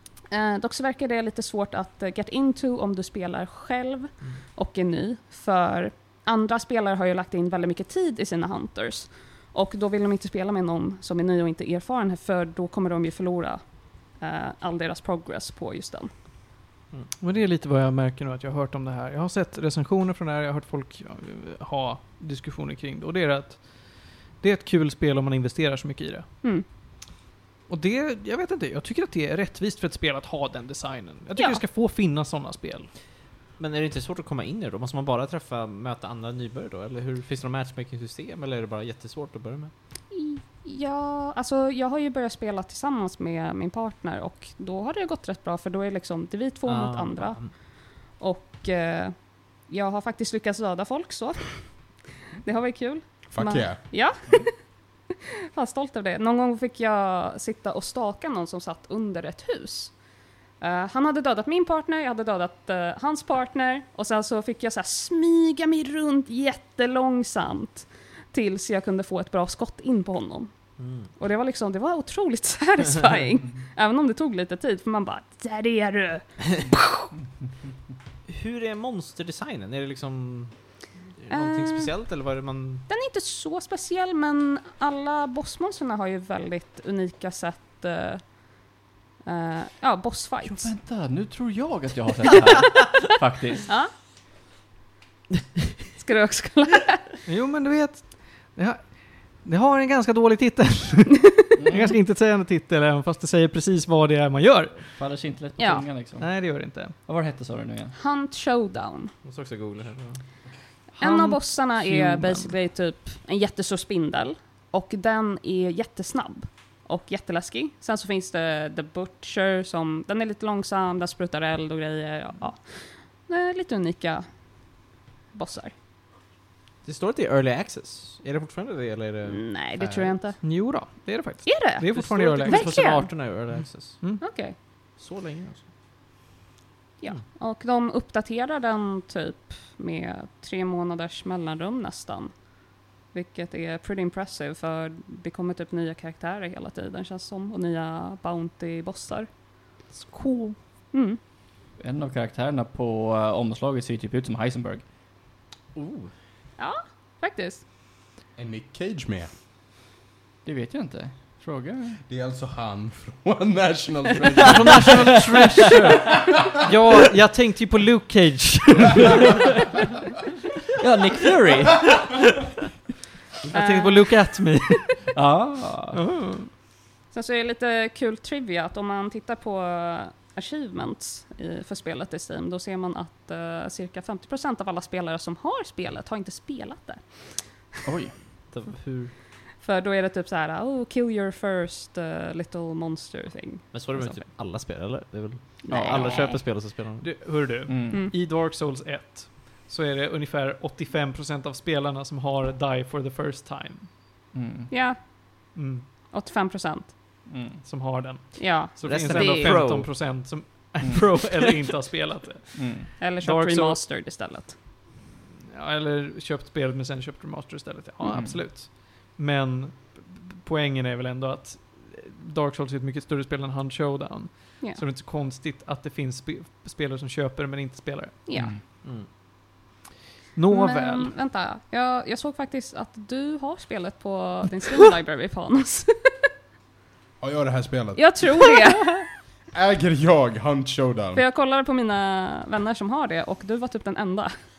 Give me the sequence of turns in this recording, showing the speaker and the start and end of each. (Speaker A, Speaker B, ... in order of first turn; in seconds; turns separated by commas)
Speaker A: 0.3-16.1, Speaker B: 17.2-26.3, Speaker B: 27.7-32.9, Speaker A: 31.4-31.6, Speaker C: 33.6-39.7, Speaker A: 40.1-47.6, Speaker C: 46.6-47.5, Speaker A: 48.1-51.7, Speaker A: 52.4-54.5, Speaker D: 53.3-53.9, Speaker A: 55.1-59.9, Speaker A: 60.6-70.5, Speaker C: 70.8-71.1, Speaker A: 71.1-76.8, Speaker C: 78.3-80.6, Speaker C: 81.1-82.9, Speaker A: 81.3-81.9, Speaker A: 82.9-88.3, Speaker A: 89.2-90.7, Speaker E: 90.4-93.7, Speaker A: 96.0-97.1, Speaker B: 97.3-104.9, Speaker E: 101.6-101.9, Speaker E: 104.9-107.9, Speaker A: 105.6-105.8, Speaker B: 106.2-107.0, Speaker A: 108.0-109.1, Speaker C: 109.2-110.2, Speaker B: 111.0-112.5, Speaker A: 111.0-124.3, Speaker A: 125.3-125.7, Speaker C: 126.8-130.2, Speaker A: 129.3-130.4, Speaker B: 130.4-132.9, Speaker A: 131.4-131.9, Speaker C: 131.9-134.0, Speaker A: 132.4-133.1, Speaker A: 134.2-134.6, Speaker C: 135.0-135.7, Speaker A: 137.0-142.3, Speaker A: 143.1-149.3, Speaker B: 150.0-150.6, Speaker A: 150.9-151.2, Speaker E: 151.8-154.8, Speaker C: 155.8-156.1, Speaker A: 156.6-157.6, Speaker D: 158.4-159.3, Speaker E: 160.4-162.0, Speaker D: 162.1-166.5, Speaker B: 164.5-169.2, Speaker C: 164.7-165.6, Speaker E: 170.8-172.3, Speaker B: 173.5-175.0, Speaker A: 173.5-174.3, Speaker E: 175.2-176.0, Speaker B: 175.9-176.5, Speaker A: 177.1-187.0, Speaker E: 187.8-188.1, Speaker C: 188.5-189.1, Speaker A: 189.6-194.2, Speaker C: 193.7-197.1, Speaker A: 195.7-196.4, Speaker B: 195.9-203.9, Speaker E: 197.7-198.0, Speaker A: 197.9-198.2, Speaker E: 204.3-204.7, Speaker A: 204.7-205.0, Speaker B: 205.6-205.9, Speaker A: 206.1-207.0, Speaker E: 207.3-207.6, Speaker B: 207.6-213.8, Speaker A: 208.4-209.6, Speaker C: 208.8-209.9, Speaker E: 212.6-212.9, Speaker A: 213.0-214.6, Speaker B: 215.5-228.2, Speaker E: 218.0-218.4, Speaker A: 228.3-228.5, Speaker B: 230.4-231.1, Speaker A: 230.5-235.9, Speaker D: 237.2-238.2, Speaker A: 237.9-239.1, Speaker D: 239.5-241.2, Speaker A: 241.2-244.4